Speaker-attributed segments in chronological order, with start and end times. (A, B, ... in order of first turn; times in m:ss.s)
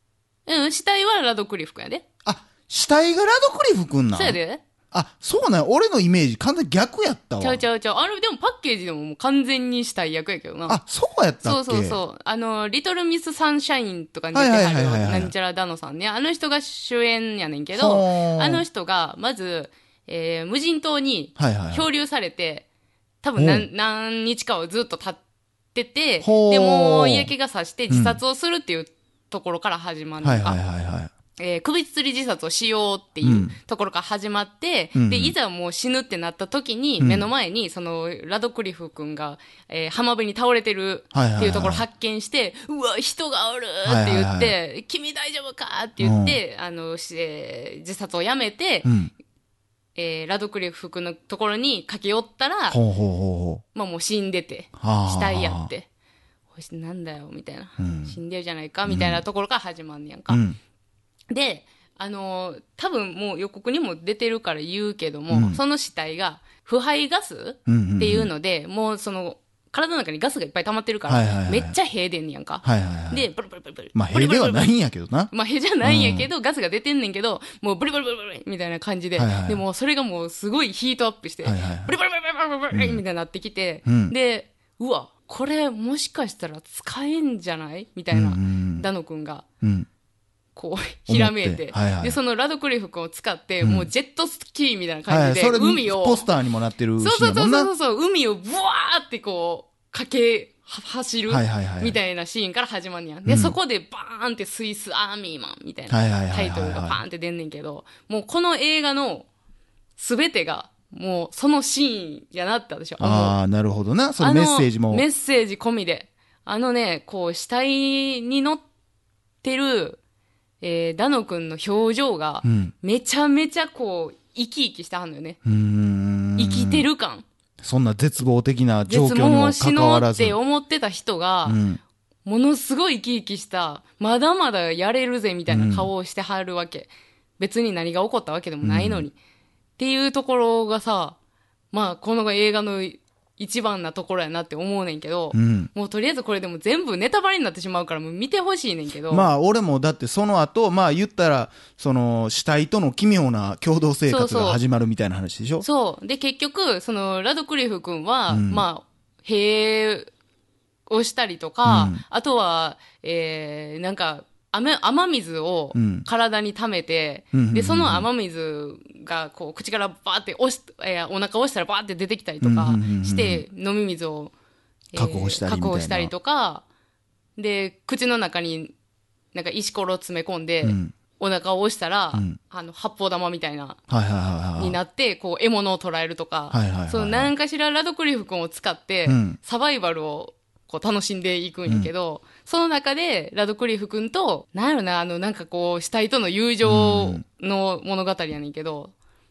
0:00.4-0:02.0 A
0:02.2-0:04.4 B
0:04.1-0:04.6 A
0:04.9-0:07.6 B
0:07.4-0:10.8 A
0:10.7-0:12.0 B
0:11.4-0:22.6 A
0:14.3-0:15.3 B
0:17.7-0:18.6 B
0:21.4-0:21.9 B
0:23.2-0:25.2 A
0:23.4-0:23.7 B
0:25.7-0:30.6 A
0:26.2-0:27.3 B
0:27.9-0:28.2 B
0:30.2-0:31.1 B
0:31.4-0:48.9 A
0:33.2-0:33.6 B
0:35.0-0:35.3 B
0:37.0-0:37.3 B
0:41.1-0:41.9 B
0:43.8-0:44.6 B
0:46.0-0:46.4 B
0:48.8-0:49.1 B
0:49.9-0:52.8 A
0:52.7-0:53.6 B
0:53.7-0:55.9 A
0:54.8-0:55.7 B
0:56.6-1:00.4 A
0:57.8-0:58.2 B
0:58.9-0:59.2 B
1:00.3-1:00.6 B
1:01.3-1:14.7 A
1:05.3-1:05.6 B
1:07.7-1:08.3 B
1:11.1-1:11.8 B
1:12.6-1:13.3 B
1:13.9-1:15.3 B
1:15.3-1:29.4 A
1:15.8-1:16.3 B
1:19.2-1:19.6 B
1:21.4-1:22.0 B
1:22.7-1:23.0 B
1:23.9-1:24.1 B
1:28.1-1:28.9 B
1:29.6-1:29.9 B
1:30.6-1:36.3 A
1:31.1-1:32.2 B
1:33.6-1:33.9 B
1:35.1-1:37.7 B
1:37.0-1:49.3 A
1:41.3-1:42.0 B
1:43.2-1:43.6 B
1:45.9-1:47.0 B
1:50.0-1:53.4 A
1:53.0-1:55.1 B
1:54.2-1:58.6 A
1:59.4-2:00.0 A
2:00.6-2:05.4 A
2:02.4-2:02.7 B
2:05.4-2:06.9 B
2:06.4-2:07.2 A
2:07.6-2:10.4 B
2:08.9-2:11.6 A
2:11.4-2:11.8 B
2:12.2-2:19.2 A
2:15.5-2:15.9 B
2:18.6-2:19.1 B
2:19.8-2:21.2 A
2:21.7-2:29.3 A
2:25.3-2:25.7 B
2:29.1-2:35.6 B
2:34.1-2:34.6 A
2:35.6-2:40.1 A
2:38.3-2:38.6 B
2:40.9-2:54.3 A
2:41.6-2:42.0 B
2:45.7-2:46.1 B
2:47.3-2:48.1 B
2:52.4-2:53.4 B
2:54.9-2:56.6 A
2:54.9-2:56.1 B
2:57.4-2:58.7 A
2:59.3-3:03.8 A
3:00.6-3:00.9 B
3:03.9-3:04.8 B
3:04.6-3:18.9 A
3:06.5-3:07.3 B
3:09.1-3:09.4 B
3:16.6-3:17.2 B